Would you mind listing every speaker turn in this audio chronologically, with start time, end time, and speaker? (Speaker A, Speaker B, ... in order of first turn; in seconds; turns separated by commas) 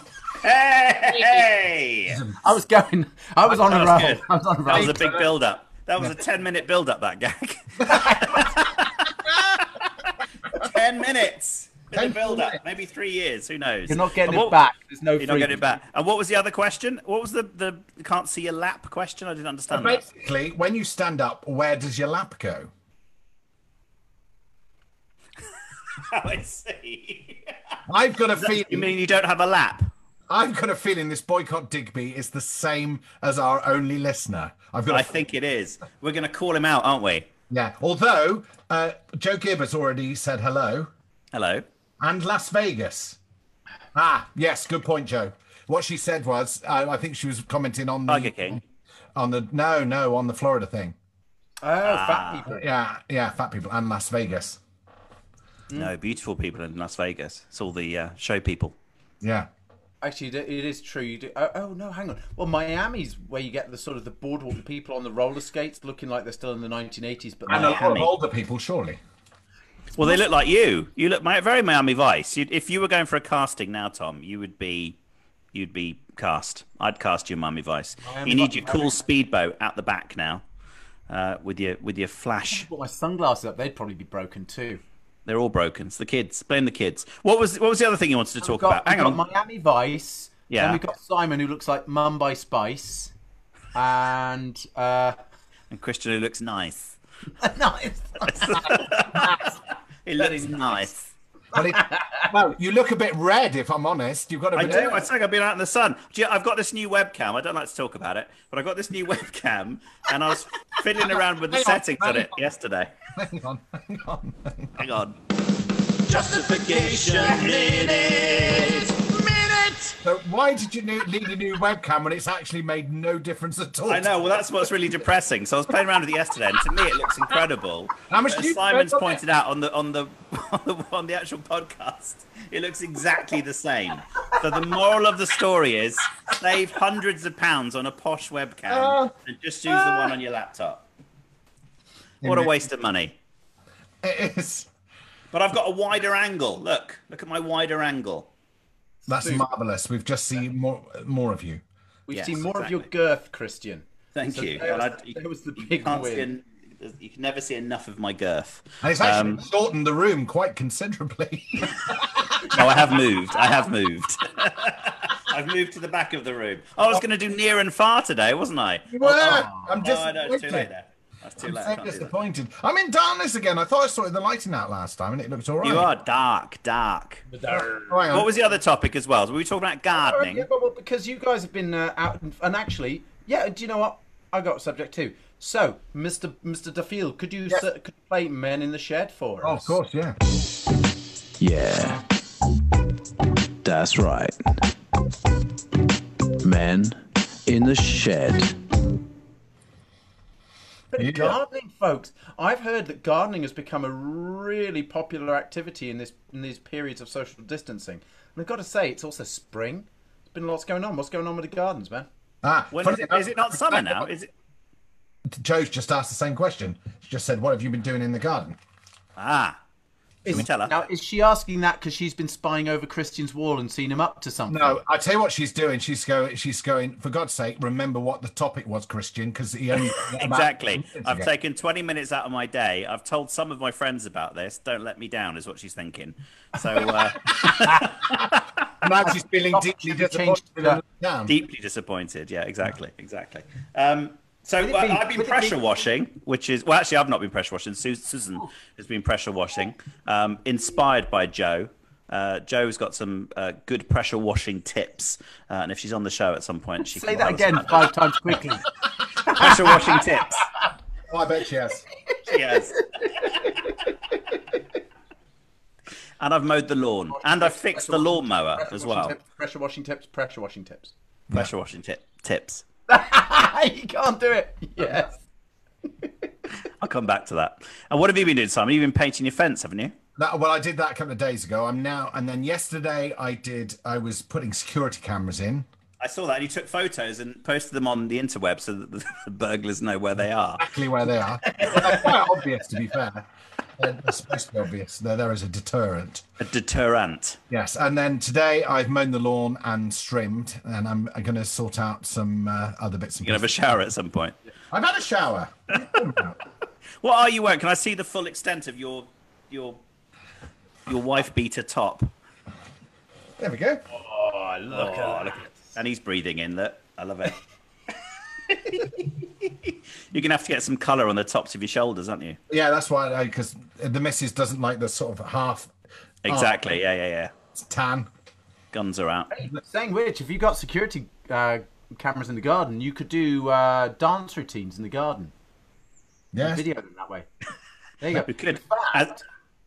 Speaker A: 0.4-2.2, Speaker B: 2.1-2.4, Speaker C: 2.4-5.1, Speaker A: 3.5-9.7, Speaker B: 4.7-5.3, Speaker C: 7.9-8.5, Speaker A: 10.5-14.6, Speaker B: 11.9-12.6, Speaker C: 13.9-15.6, Speaker A: 15.2-20.0, Speaker B: 19.7-22.7, Speaker A: 25.9-27.8, Speaker B: 27.9-28.9, Speaker A: 28.4-29.9, Speaker B: 30.3-35.2, Speaker A: 34.9-37.3, Speaker B: 37.5-40.9, Speaker A: 41.3-41.6, Speaker B: 42.0-43.2, Speaker B: 43.9-48.6, Speaker A: 48.1-48.6, Speaker B: 49.2-51.0, Speaker C: 51.6-52.6, Speaker A: 51.8-52.5, Speaker B: 52.5-54.6, Speaker A: 55.8-58.8, Speaker B: 59.2-59.5, Speaker C: 60.0-68.1, Speaker B: 67.5-69.0, Speaker A: 67.5-68.1, Speaker A: 70.0-75.0, Speaker A: 75.5-80.4, Speaker C: 78.0-79.0, Speaker A: 81.1-82.7, Speaker C: 82.5-84.8, Speaker A: 85.3-89.2, Speaker C: 88.4-93.1, Speaker A: 90.5-90.8, Speaker C: 93.7-95.2, Speaker A: 95.7-97.0, Speaker C: 97.4-99.5, Speaker A: 98.3-99.5, Speaker A: 100.0-101.1, Speaker C: 100.2-100.7, Speaker C: 101.5-102.3, Speaker B: 101.5-105.1, Speaker A: 104.5-112.9, Speaker B: 111.5-112.4, Speaker B: 113.2-114.8, Speaker A: 114.8-115.2, Speaker A: 116.0-119.0, Speaker B: 116.1-118.0, Speaker B: 120.0-124.4, Speaker A: 123.9-140.9, Speaker B: 128.1-129.2, Speaker B: 138.7-139.1, Speaker B: 139.7-140.1, Speaker B: 142.2-142.5, Speaker A: 142.2-143.2, Speaker B: 144.0-144.7, Speaker A: 145.3-148.3, Speaker B: 149.1-151.6, Speaker C: 149.1-149.5, Speaker C: 152.1-156.3, Speaker A: 152.1-152.8, Speaker A: 154.2-159.4, Speaker B: 158.8-162.9, Speaker A: 162.5-172.1, Speaker B: 168.9-170.7, Speaker C: 169.0-169.8, Speaker B: 171.4-175.9, Speaker A: 175.6-177.2, Speaker C: 177.3-178.1, Speaker B: 177.9-178.3, Speaker A: 178.1-180.5, Speaker C: 179.9-189.8, Speaker B: 189.4-190.2, Speaker D: 191.4-192.0, Speaker D: 193.7-194.3, Speaker D: 196.4-196.9, Speaker D: 197.5-198.4, Speaker C: 197.5-198.3, Speaker C: 200.9-212.1, Speaker B: 201.0-201.4, Speaker B: 212.4-214.1, Speaker A: 212.7-214.3, Speaker B: 215.4-218.6, Speaker A: 219.2-219.6, Speaker C: 220.2-224.8, Speaker A: 220.3-220.7, Speaker B: 224.5-231.3, Speaker A: 230.0-238.4, Speaker C: 236.8-238.0, Speaker B: 238.8-241.3, Speaker C: 239.1-240.8, Speaker A: 241.3-258.0, Speaker C: 244.6-245.7, Speaker C: 256.8-260.0, Speaker A: 259.3-260.5, Speaker B: 261.1-261.8, Speaker C: 262.1-264.6, Speaker A: 262.3-263.5, Speaker A: 266.2-269.1, Speaker C: 267.1-270.9, Speaker A: 271.3-272.6, Speaker C: 272.9-275.2, Speaker C: 276.0-276.3, Speaker A: 276.8-279.9, Speaker B: 280.2-285.7, Speaker A: 286.0-290.7, Speaker B: 290.6-293.3, Speaker B: 293.8-296.2, Speaker A: 296.4-297.4, Speaker B: 297.5-303.5, Speaker A: 303.2-304.4, Speaker B: 304.7-306.4, Speaker A: 305.8-306.1, Speaker A: 307.0-309.8, Speaker A: 310.9-312.1, Speaker B: 313.4-313.8, Speaker C: 313.9-315.6, Speaker A: 314.7-317.4, Speaker A: 318.5-322.4, Speaker B: 322.5-325.7, Speaker A: 326.2-327.3, Speaker B: 326.3-326.6, Speaker B: 327.6-328.1, Speaker A: 328.7-329.3, Speaker C: 329.3-335.3, Speaker B: 336.3-336.6, Speaker C: 336.4-337.3, Speaker C: 338.0-339.1, Speaker A: 338.1-339.2